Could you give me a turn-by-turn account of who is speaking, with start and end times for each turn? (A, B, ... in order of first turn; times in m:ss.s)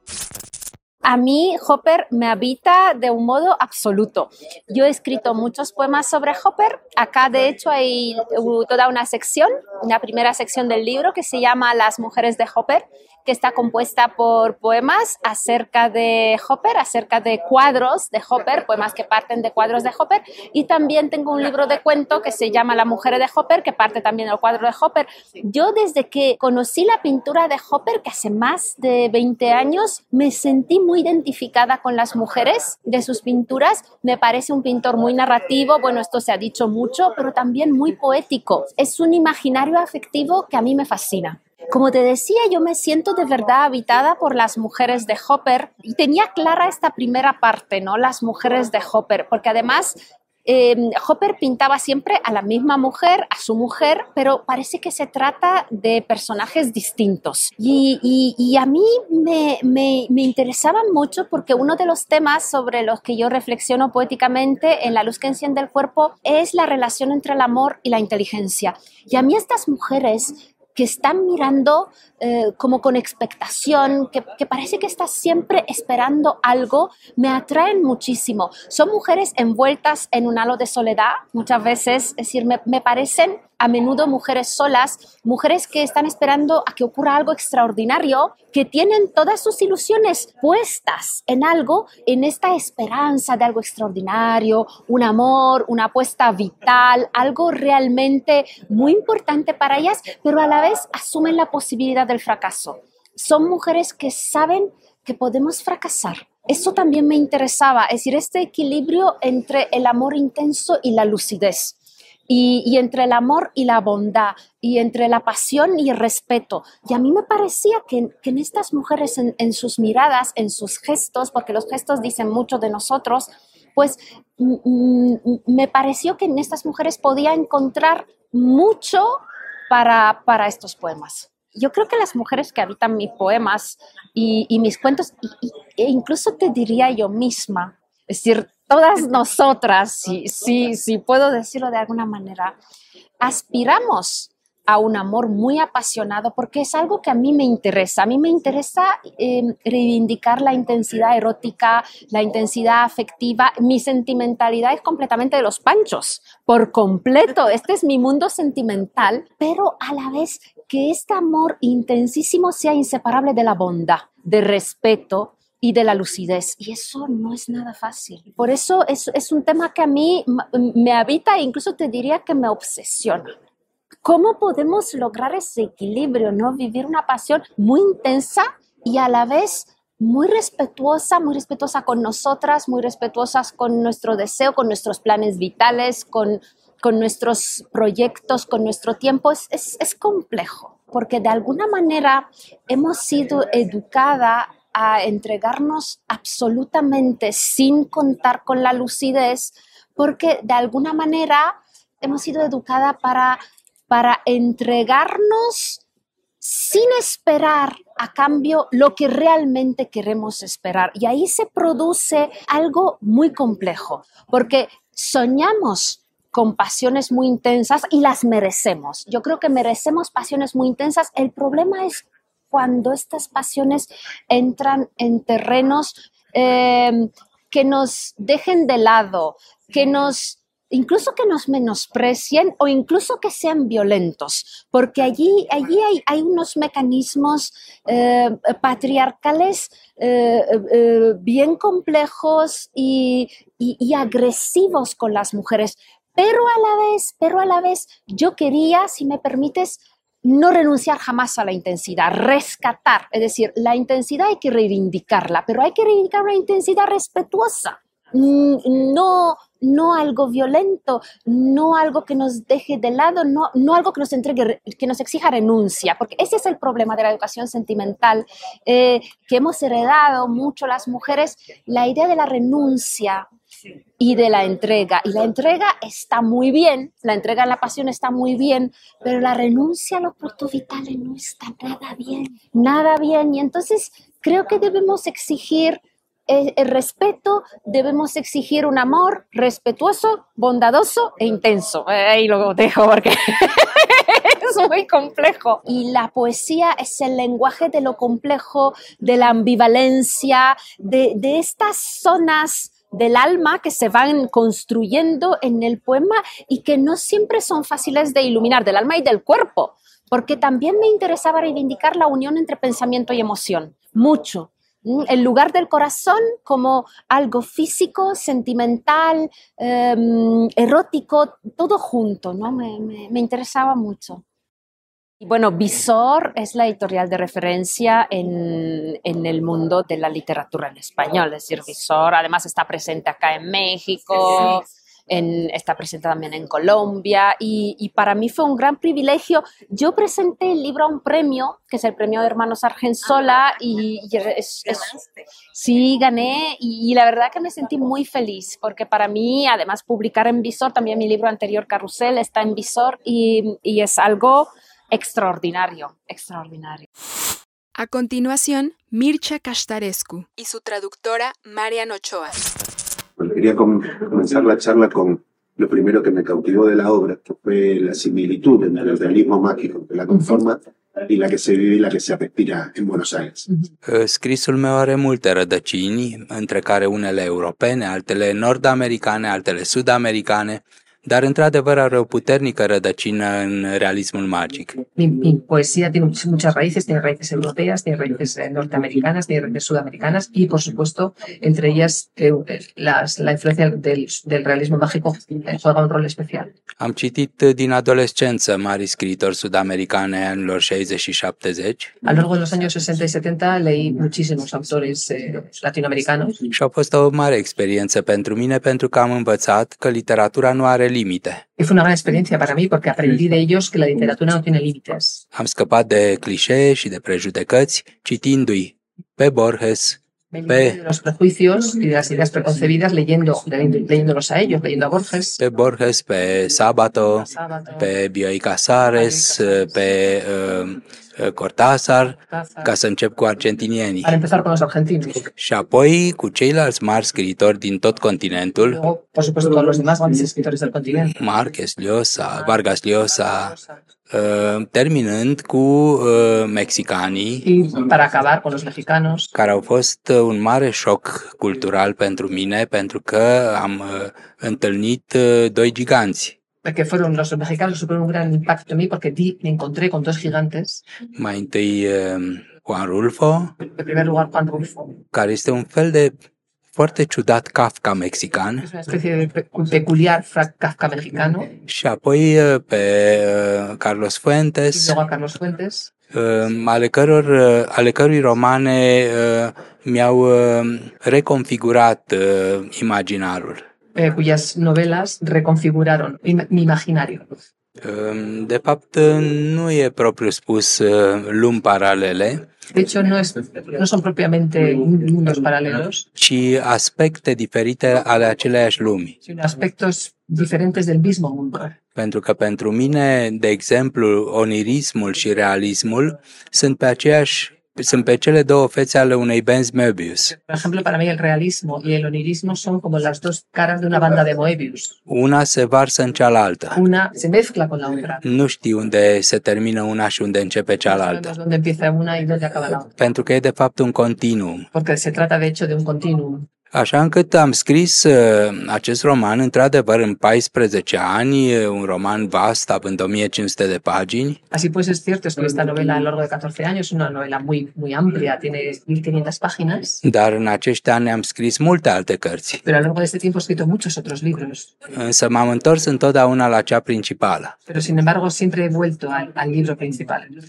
0:01.0-1:51.8 A
1:52.3-2:22.6 A
2:23.2-2:53.3 A
2:54.0-3:25.8 A
3:26.4-4:33.3 A
4:34.0-5:24.2 A
5:25.2-5:56.8 A
5:57.8-6:02.5 B
6:03.2-6:13.5 C
6:13.8-6:24.8 D
6:25.0-6:36.5 E
6:36.8-6:41.9 D
6:42.0-6:46.4 E
6:46.5-6:51.4 D
6:51.6-6:55.2 E
6:55.3-7:00.8 D
7:00.3-7:05.4 E
7:05.4-7:14.2 D
7:07.3-7:07.9 E
7:08.9-7:09.7 E
7:12.2-7:12.7 E
7:14.0-7:15.2 E
7:15.2-7:18.8 D
7:18.7-7:21.1 E
7:21.2-7:23.5 D
7:23.3-7:23.8 E
7:24.1-7:27.4 D
7:27.4-7:29.3 E
7:29.3-7:36.4 D
7:36.6-7:40.8 E
7:41.1-7:43.5 D
7:43.6-7:44.9 E
7:45.1-7:46.1 D
7:46.7-7:48.7 D
7:48.6-7:51.5 E
7:51.7-7:55.0 D
7:54.7-7:55.9 E
7:56.1-8:03.6 D
8:03.9-8:07.3 E
8:07.8-8:12.4 D
8:12.7-8:16.0 E
8:16.2-8:19.1 D
8:19.2-8:21.8 E
8:21.9-8:30.3 D
8:30.3-8:35.0 E
8:35.1-8:36.8 D
8:36.7-8:38.2 E
8:38.2-8:41.3 D
8:40.8-8:42.9 E
8:43.0-8:44.7 D
8:44.7-8:46.5 E
8:46.7-8:54.4 D
8:54.5-9:00.0 E
9:00.0-9:02.6 D
9:02.6-9:04.7 E
9:04.9-9:07.6 D
9:07.7-9:10.3 E